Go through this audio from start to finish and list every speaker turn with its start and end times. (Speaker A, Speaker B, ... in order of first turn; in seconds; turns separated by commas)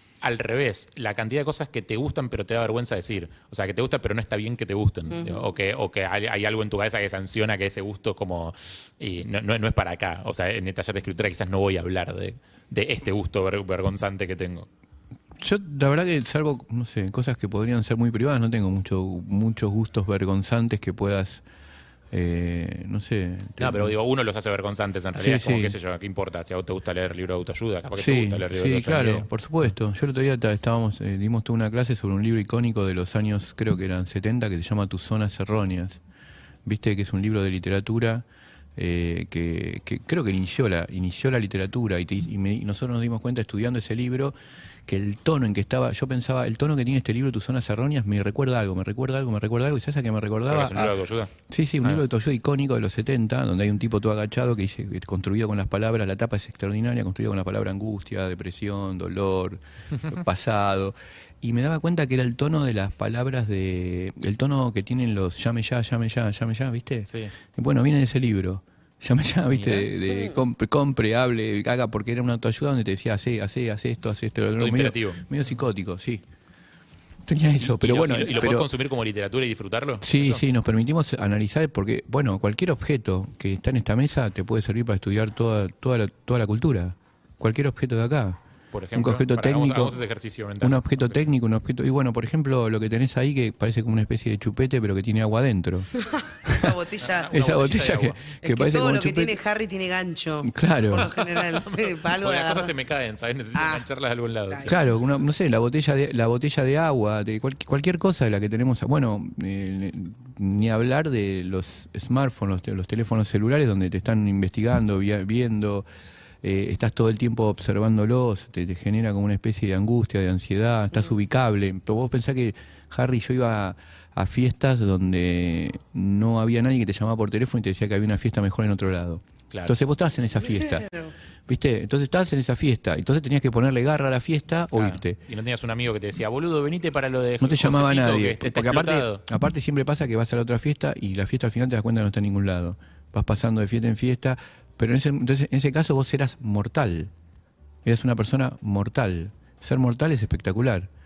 Speaker A: 0.2-14.7, Speaker B: 5.1-5.4, Speaker C: 15.4-21.4, Speaker C: 22.1-23.9, Speaker A: 23.6-29.3, Speaker C: 25.2-25.8, Speaker C: 28.0-36.0, Speaker C: 36.6-38.2, Speaker C: 38.8-44.3, Speaker C: 44.9-51.0, Speaker A: 50.5-52.0, Speaker C: 51.5-76.2, Speaker A: 69.5-69.9, Speaker A: 74.6-75.2, Speaker C: 77.3-78.7, Speaker A: 77.6-80.4, Speaker C: 80.0-88.4, Speaker A: 88.7-91.3, Speaker C: 88.9-90.0, Speaker C: 90.6-95.9, Speaker B: 96.0-97.3, Speaker C: 96.4-96.8, Speaker A: 97.0-98.2, Speaker C: 97.3-99.4, Speaker B: 98.4-102.7, Speaker C: 100.4-101.1, Speaker A: 101.4-104.9, Speaker B: 103.5-103.8, Speaker C: 104.7-115.9, Speaker C: 116.4-130.9, Speaker A: 129.5-129.8, Speaker B: 130.6-131.1, Speaker C: 131.5-135.2, Speaker A: 134.8-139.2, Speaker C: 137.4-147.1, Speaker C: 147.8-150.9